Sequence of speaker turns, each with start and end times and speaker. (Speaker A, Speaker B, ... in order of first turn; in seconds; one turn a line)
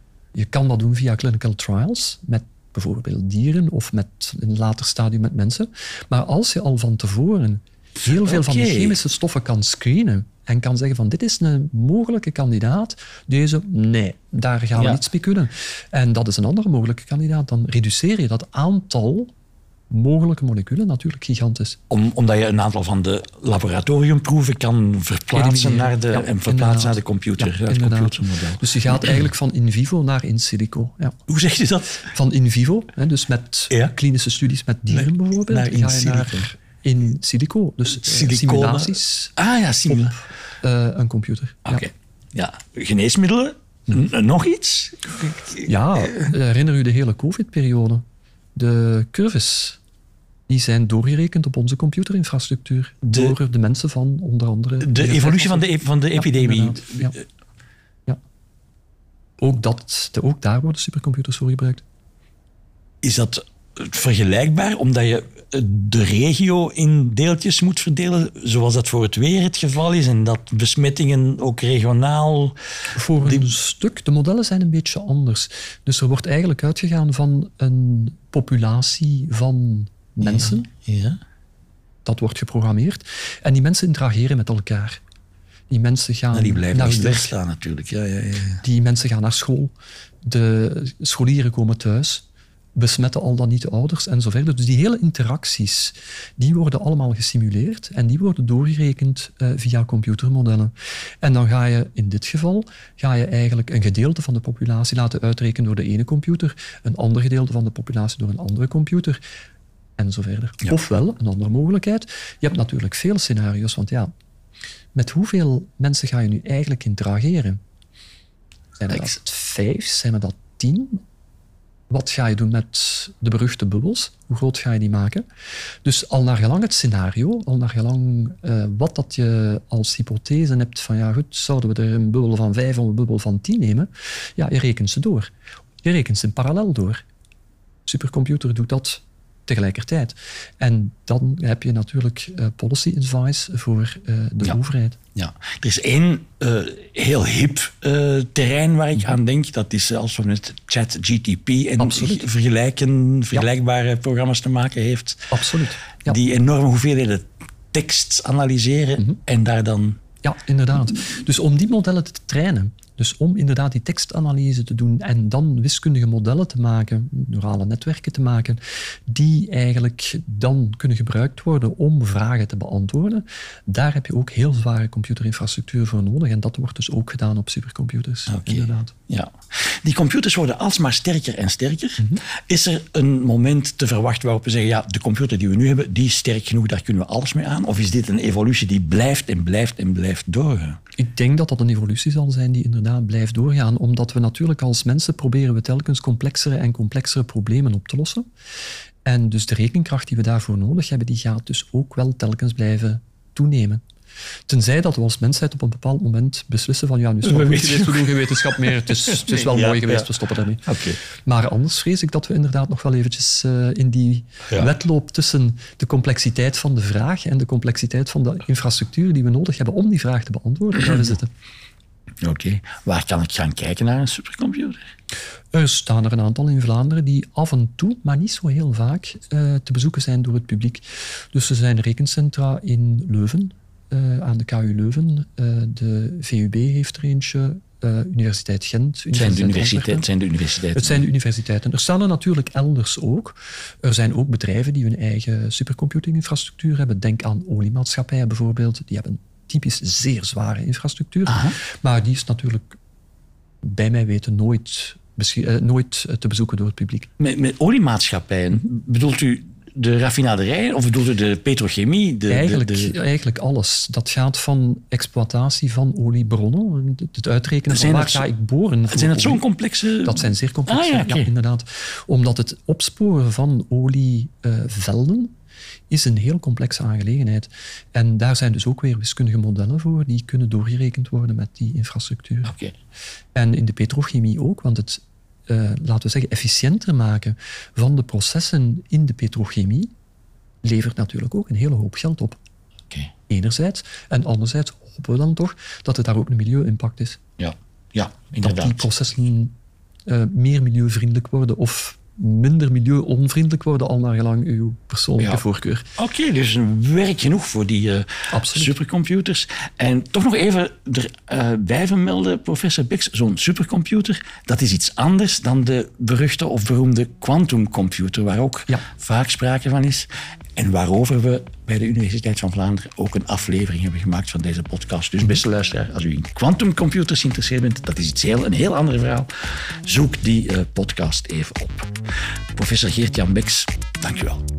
Speaker A: 0.3-19.3
Speaker B: 8.0-9.0
Speaker B: 14.8-15.0
Speaker A: 19.9-21.8
Speaker B: 21.9-29.3
Speaker A: 25.3-31.2
Speaker B: 31.3-32.1
Speaker A: 32.1-39.4
Speaker B: 34.9-36.5
Speaker B: 37.9-40.2
Speaker A: 39.9-41.9
Speaker B: 41.7-45.6
Speaker A: 45.6-48.0
Speaker A: 48.5-49.8
Speaker A: 50.5-57.2
Speaker B: 53.0-53.4
Speaker B: 54.8-57.2
Speaker A: 59.4-61.8
Speaker B: 63.0-72.6
Speaker A: 73.0-80.7
Speaker B: 73.2-73.5
Speaker B: 80.2-81.2
Speaker A: 82.0-85.0
Speaker A: 85.7-87.3
Speaker B: 86.3-88.6
Speaker A: 88.6-109.2
Speaker A: 110.0-114.1
Speaker A: 115.0-117.6
Speaker A: 118.8-121.0
Speaker B: 118.9-119.2
Speaker A: 121.9-125.2
Speaker A: 125.8-135.3
Speaker A: 135.8-137.0
Speaker A: 137.9-145.0
Speaker B: 145.2-155.3
Speaker A: 151.8-152.3
Speaker A: 155.3-156.2
Speaker B: 156.0-160.0
Speaker A: 160.2-178.9
Speaker B: 178.3-190.8
Speaker A: 191.0-198.3
Speaker A: 199.1-203.8
Speaker A: 204.5-221.3
Speaker B: 207.2-210.1
Speaker B: 210.7-211.0
Speaker B: 220.7-221.1
Speaker B: 222.2-224.9
Speaker A: 225.5-240.1
Speaker B: 239.1-241.1
Speaker A: 240.7-252.8
Speaker B: 251.3-251.6
Speaker A: 253.6-257.1
Speaker B: 257.2-262.9
Speaker A: 262.3-269.4
Speaker B: 267.7-268.3
Speaker B: 268.9-271.3
Speaker A: 270.0-275.3
Speaker A: 275.9-282.5
Speaker B: 282.5-282.7
Speaker A: 283.4-289.9
Speaker A: 290.6-292.4
Speaker A: 293.3-297.2
Speaker B: 297.4-298.9
Speaker A: 298.4-299.6
Speaker A: 300.1-305.9
Speaker B: 306.0-331.9
Speaker A: 308.3-308.8
Speaker B: 332.6-334.4